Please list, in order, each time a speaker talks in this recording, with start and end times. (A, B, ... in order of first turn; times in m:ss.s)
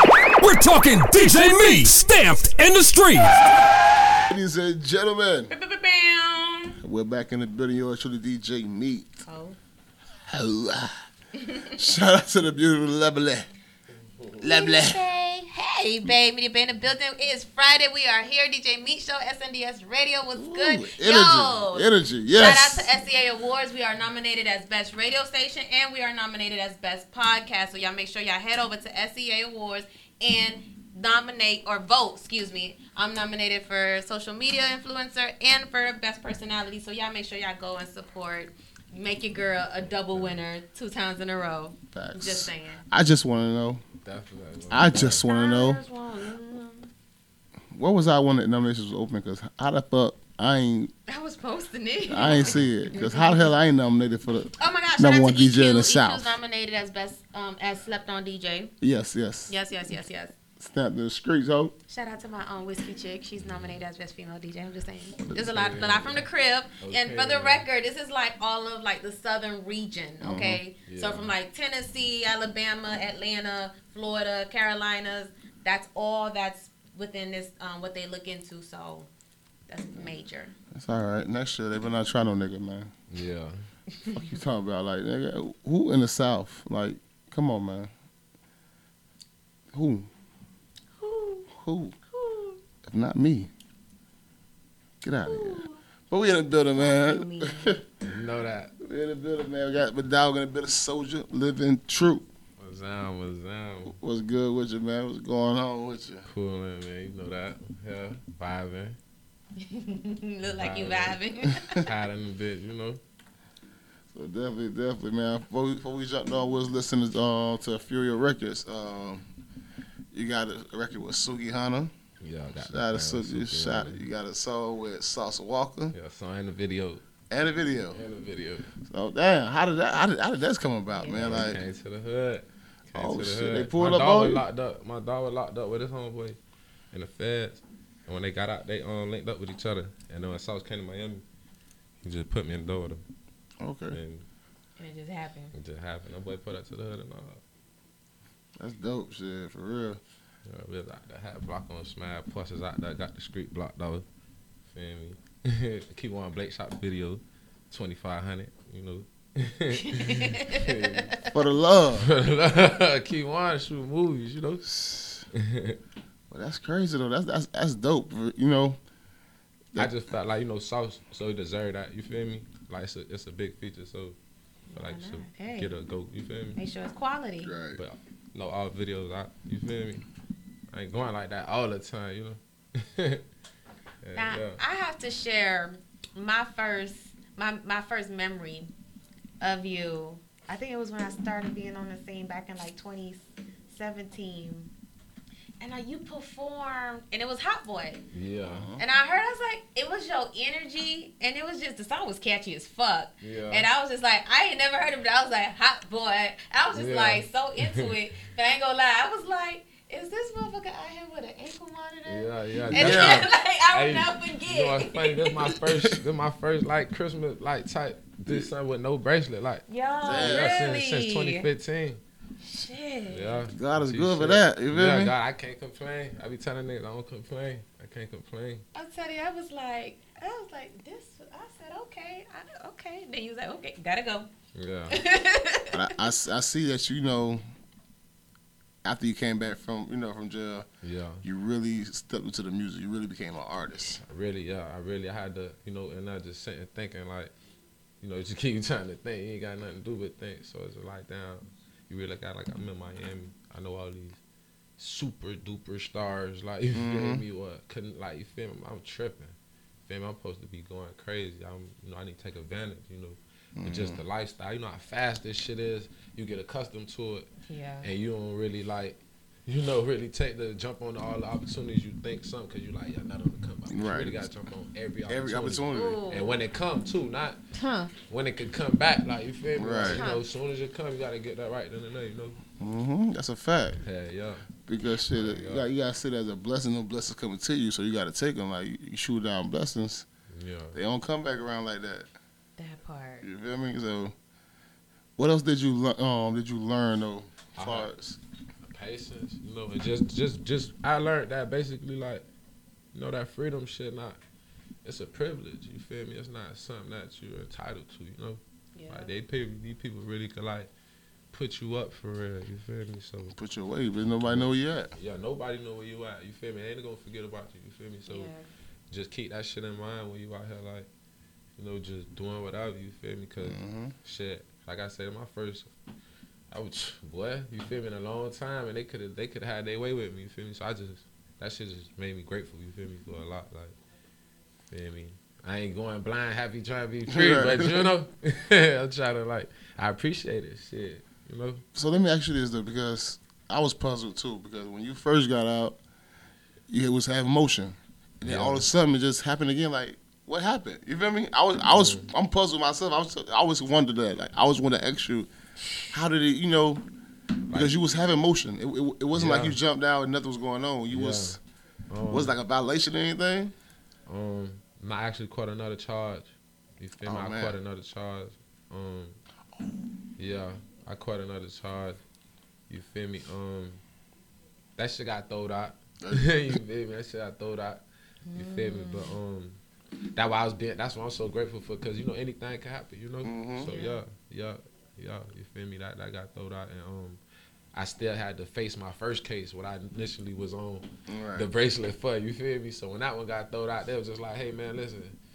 0:00.4-0:03.4 A
0:01.2-0:01.9 B
0:04.3-0:05.5 C
0:05.5-0:06.8 B
0:06.8-0:09.2 C
0:09.3-0:09.6 B
0:10.2-0:11.0 C
0:11.3-0:11.7 B
0:11.7-0:13.5 C
0:14.4-0:42.8 B
0:14.4-0:15.0 C
0:20.3-0:22.9 C
0:39.9-0:40.4 D
0:41.9-0:43.8 C
0:44.0-0:45.2 D
0:44.7-0:45.8 C
0:45.2-0:46.9 B
0:47.7-0:50.9 C
0:51.1-0:53.5 B
0:52.1-0:56.4 C
0:52.2-0:52.7 D
0:54.6-0:58.7 B
0:58.8-0:59.5 C
0:59.5-1:00.4 B
1:00.6-1:01.7 C
1:01.9-1:19.1 B
1:03.4-1:03.8 D
1:05.3-1:05.8 C
1:05.3-1:06.2 D
1:06.8-1:07.6 D
1:10.2-1:10.6 C
1:10.8-1:11.3 D
1:19.7-1:20.5 B
1:20.7-1:22.9 C
1:23.1-1:23.6 D
1:24.1-1:27.9 C
1:29.7-1:30.1 C
1:31.0-1:31.5 B
1:31.5-1:32.0 C
1:32.1-1:32.6 B
1:32.8-1:33.5 C
1:35.0-1:37.8 C
1:35.2-1:35.8 B
1:36.7-1:37.8 B
1:38.0-1:38.7 D
1:38.8-1:42.3 C
1:42.6-1:43.9 D
1:43.8-1:46.2 C
1:46.2-1:49.0 D
1:49.6-1:51.8 B
1:50.4-1:51.2 D
1:51.8-1:53.0 D
1:54.1-1:59.2 C
2:00.1-2:01.9 C
2:02.2-2:04.0 D
2:02.6-2:05.9 C
2:05.9-2:07.0 D
2:07.3-2:08.0 C
2:07.9-2:08.7 D
2:08.8-2:11.6 C
2:11.0-2:11.4 B
2:11.2-2:16.4 D
2:12.9-2:14.4 C
2:16.9-2:21.2 D
2:22.0-2:23.0 D
2:23.6-2:24.0 C
2:23.9-2:24.2 D
2:24.8-2:25.5 B
2:25.5-2:27.4 D
2:28.6-2:30.0 C
2:30.4-2:34.0 D
2:34.7-2:41.1 D
2:39.9-2:41.1 B
2:41.3-2:42.1 C
2:42.0-2:44.7 D
2:44.6-2:45.2 C
2:45.3-2:45.8 D
2:46.3-2:48.8 C
2:49.7-2:54.2 D
2:54.7-2:55.7 B
2:54.7-2:56.6 D
2:56.6-2:57.5 B
2:57.4-2:57.8 C
2:57.8-3:00.0 D
3:00.7-3:03.2 D
3:04.0-3:04.6 D
3:04.1-3:08.7 B
3:09.4-3:14.7 B
3:15.6-3:18.0 B
3:18.1-3:18.7 D
3:18.4-3:18.8 C
3:18.8-3:35.6 B
3:23.2-3:23.7 D
3:26.7-3:28.0 D
3:32.1-3:39.6 D
3:32.7-3:33.3 C
3:39.7-3:41.4 B
3:40.0-3:40.7 C
3:40.2-3:42.0 D
3:42.4-3:43.4 B
3:43.1-3:48.6 D
3:43.5-3:45.1 C
3:48.7-3:54.3 B
3:54.5-3:55.0 D
3:54.9-3:55.8 B
3:55.7-3:57.4 C
3:58.8-4:00.7 C
4:00.8-4:01.2 D
4:01.2-4:04.0 C
4:04.0-4:07.3 D
4:08.0-4:14.2 D
4:14.8-4:27.3 D
4:16.7-4:17.2 C
4:23.6-4:24.0 C
4:27.5-4:27.9 B
4:27.8-4:37.4 D
4:33.7-4:34.3 C
4:35.1-4:36.0 C
4:35.7-4:36.4 B
4:37.5-4:37.9 B
4:38.1-4:42.4 D
4:39.6-4:40.1 C
4:39.8-4:40.2 B
4:42.6-4:43.8 C
4:43.8-4:44.5 D
4:44.7-4:50.0 C
4:45.1-4:45.7 D
4:50.3-4:50.8 D
4:50.7-4:52.1 C
4:52.6-4:53.2 B
4:53.2-4:54.1 C
4:55.2-4:58.2 C
4:57.5-4:57.9 D
4:58.6-5:02.2 D
5:02.9-5:04.2 D
5:04.8-5:10.7 D
5:08.7-5:09.1 B
5:11.3-5:13.4 D
5:13.3-5:14.9 C
5:14.2-5:18.3 D
5:18.1-5:18.4 B
5:18.9-5:20.9 D
5:21.6-5:25.7 D
5:23.4-5:23.9 C
5:26.5-5:33.8 D
5:34.7-5:41.6 D
5:37.1-5:37.9 C
5:41.7-5:45.8 C
5:46.7-5:55.3 C
5:48.2-5:48.6 D
5:51.7-5:52.1 D
5:55.9-5:56.8 C
5:57.5-6:01.4 C
5:59.1-5:59.6 D
6:00.9-6:01.4 D
6:01.9-6:02.3 D
6:02.1-6:03.5 C
6:04.1-6:09.2 D
6:07.0-6:07.6 C
6:10.2-6:12.0 D
6:12.7-6:13.8 D
6:14.8-6:17.8 D
6:16.0-6:16.6 C
6:18.3-6:19.2 B
6:18.3-6:19.6 D
6:20.1-6:27.2 D
6:23.2-6:23.7 C
6:23.7-6:24.0 B
6:27.7-6:35.2 D
6:31.1-6:31.5 C